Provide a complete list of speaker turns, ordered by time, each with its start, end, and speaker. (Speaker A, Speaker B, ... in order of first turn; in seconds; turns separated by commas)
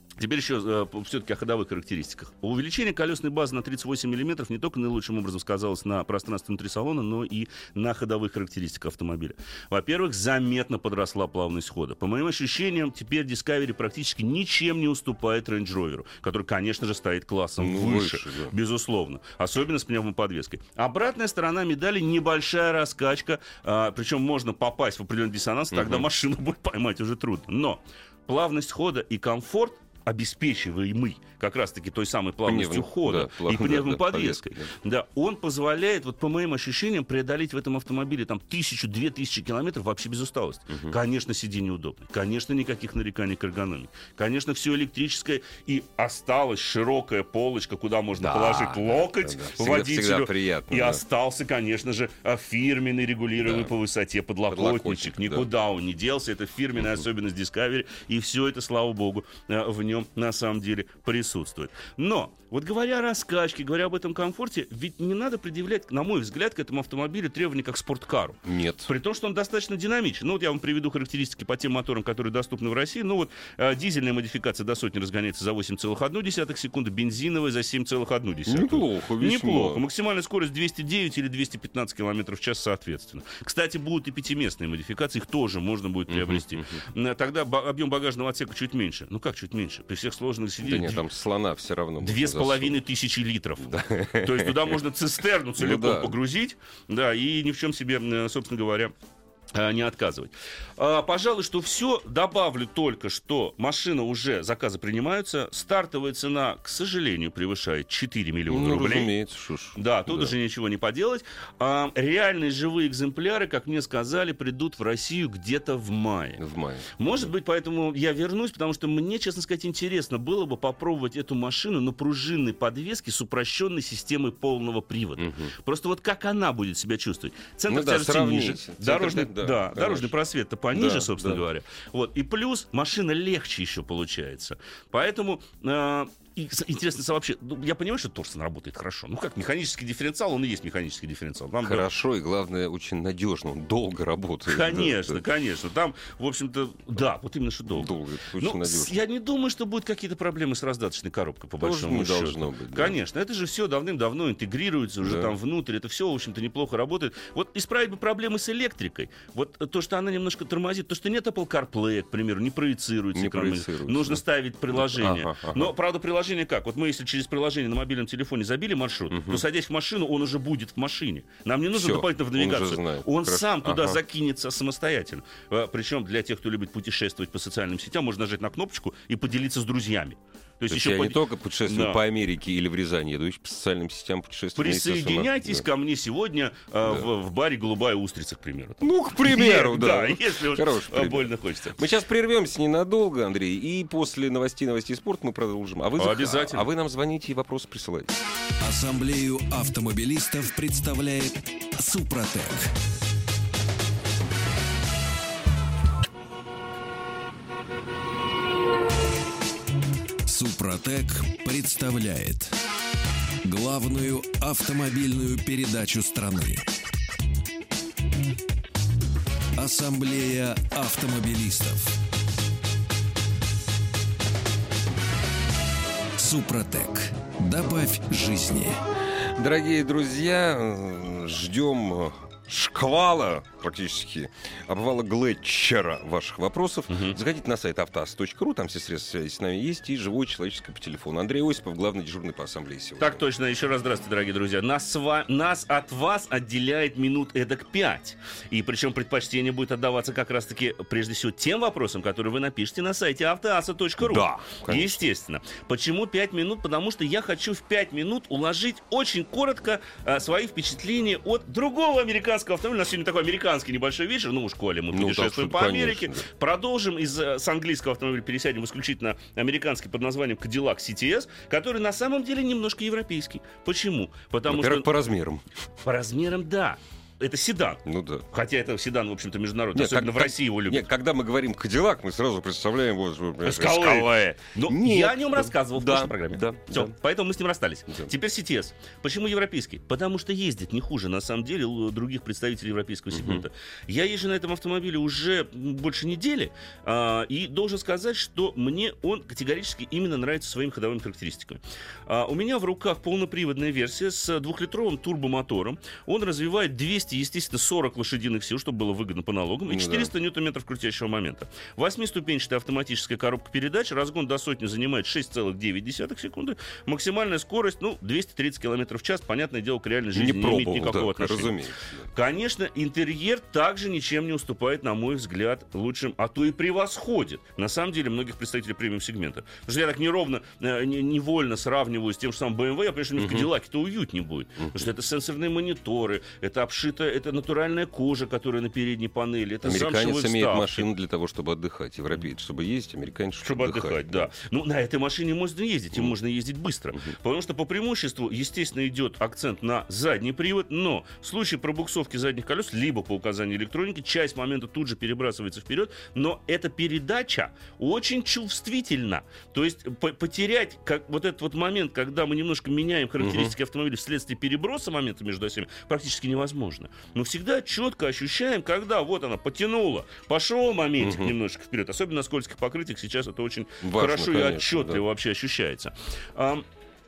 Speaker A: 0.2-91.0, Speaker B: 17.6-18.5, Speaker B: 25.7-26.1, Speaker B: 32.5-34.7, Speaker B: 40.7-41.0, Speaker B: 48.1-51.0, Speaker B: 53.4-53.7, Speaker B: 54.5-55.5, Speaker B: 68.4-68.9, Speaker B: 78.5-79.8, Speaker B: 86.1-86.8, Speaker B: 90.6-92.8, Speaker A: 92.0-98.9, Speaker B: 93.7-94.8, Speaker B: 95.6-96.2, Speaker A: 99.5-109.1, Speaker B: 108.5-110.3, Speaker A: 109.7-116.4, Speaker B: 116.4-117.3, Speaker A: 117.0-141.8, Speaker B: 125.2-125.5, Speaker B: 127.7-130.1, Speaker B: 130.7-131.4, Speaker B: 141.6-145.2, Speaker A: 144.5-182.0, Speaker B: 147.7-149.0, Speaker B: 151.6-153.0, Speaker B: 155.0-155.3, Speaker B: 163.1-165.7, Speaker B: 169.1-169.4, Speaker B: 171.7-174.0, Speaker B: 180.7-185.7, Speaker A: 184.6-191.8, Speaker B: 188.8-198.2, Speaker A: 196.0-196.7, Speaker C: 198.6-202.7, Speaker C: 210.2-212.5, Speaker C: 213.4-216.6, Speaker C: 219.6-221.9, Speaker C: 226.2-228.8, Speaker B: 229.1-243.2, Speaker A: 236.9-237.1, Speaker A: 243.0-274.9, Speaker B: 254.0-255.1, Speaker B: 264.9-266.3, Speaker B: 274.5-275.4, Speaker A: 275.8-280.8, Speaker B: 277.8-278.2, Speaker B: 279.7-286.9, Speaker A: 283.4-321.5, Speaker B: 293.1-293.4, Speaker B: 309.7-310.1, Speaker B: 320.1-322.1, Speaker A: 322.1-340.9, Speaker B: 333.2-333.5, Speaker B: 334.6-334.9, Speaker B: 339.6-344.3, Speaker A: 343.4-376.6, Speaker B: 363.2-363.5, Speaker B: 371.0-371.3, Speaker B: 373.8-375.0